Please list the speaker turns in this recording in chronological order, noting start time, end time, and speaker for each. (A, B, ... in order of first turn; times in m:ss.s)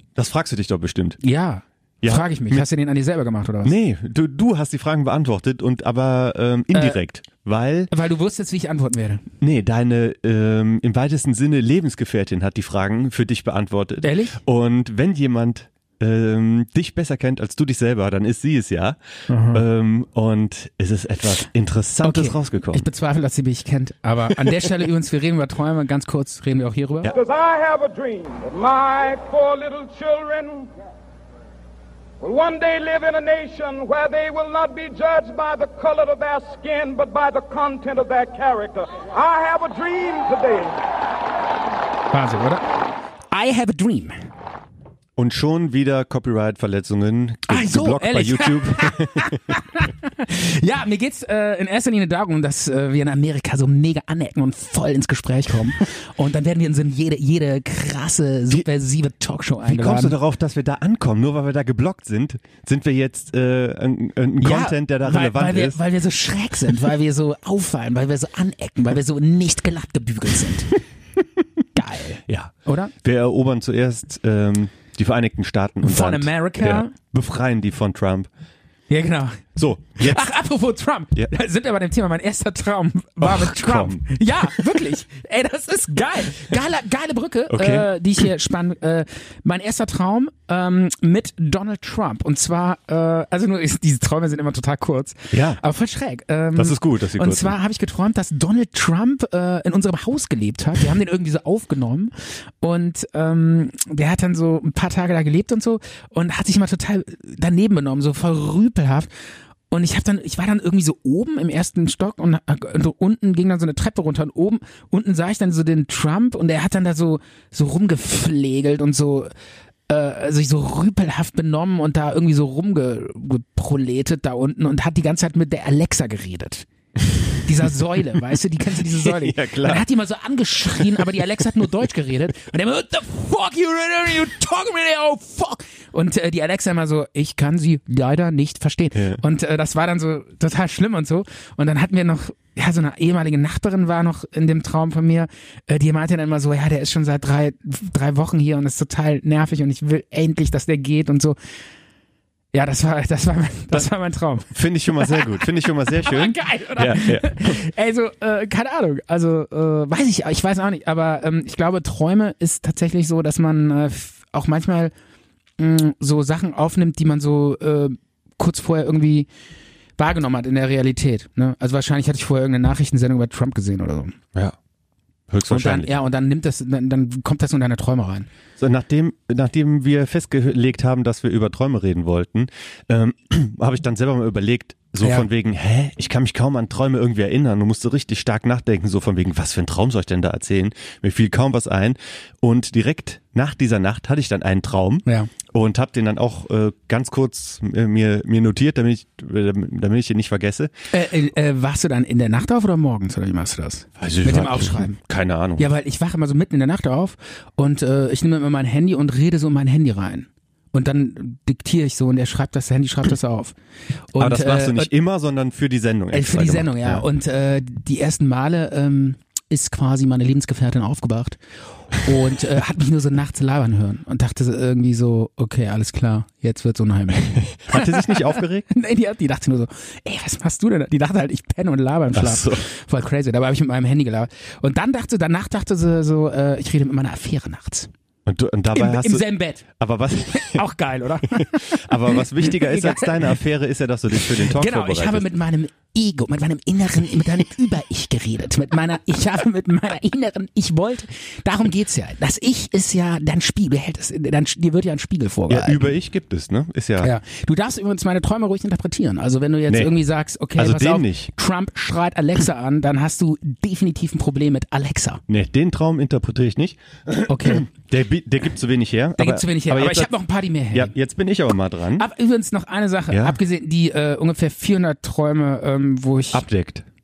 0:00.2-0:01.2 A
0:01.2-0:03.8 B
0:02.0-0:02.6 A
0:03.6-0:07.9 A
0:06.7-0:07.0 B
0:07.9-0:09.2 B
0:09.4-0:19.0 A
0:14.0-0:14.4 B
0:19.3-0:19.6 B
0:19.5-0:22.9 A
0:22.0-0:27.1 B
0:27.1-0:30.7 C
0:32.2-0:40.8 C
0:42.1-0:42.7 B
0:43.3-0:44.2 B
0:45.2-0:49.6 A
0:47.5-1:00.2 B
0:59.6-1:05.8 A
1:04.4-1:10.8 B
1:11.8-1:12.9 B
1:12.3-1:18.3 A
1:15.8-1:16.9 B
1:18.9-1:19.4 B
1:19.6-1:20.2 A
1:20.0-1:49.1 B
1:23.2-1:24.8 A
1:27.5-1:27.9 A
1:35.3-1:35.6 A
1:36.6-1:37.6 A
1:49.7-1:59.3 B
1:59.9-2:06.7 B
2:07.4-2:31.4 B
2:09.0-2:09.9 A
2:10.8-2:11.0 A
2:19.0-2:19.2 A
2:32.5-2:44.9 B
2:34.5-2:37.6 A
2:45.6-2:49.3 B
2:50.0-2:54.2 B
2:55.3-2:55.9 A
2:55.5-2:58.3 B
2:58.6-3:20.7 A
3:05.0-3:05.3 B
3:20.9-3:25.0 B
3:24.0-3:25.7 A
3:25.6-3:33.5 B
3:34.1-3:34.9 B
3:34.2-3:37.0 A
3:36.1-3:41.4 B
3:41.9-3:57.9 B
3:47.6-3:48.7 A
3:52.1-3:52.6 A
3:58.3-4:00.6 A
3:58.7-3:59.6 B
4:00.3-4:03.4 B
4:01.3-4:05.2 A
4:04.2-4:15.9 B
4:15.5-4:17.1 A
4:17.0-4:25.2 B
4:19.7-4:20.0 A
4:20.6-4:21.3 A
4:25.3-4:30.1 A
4:27.3-4:27.7 B
4:29.2-4:30.9 B
4:30.7-4:32.1 A
4:32.0-4:36.5 B
4:33.1-4:33.4 A
4:36.3-4:36.8 A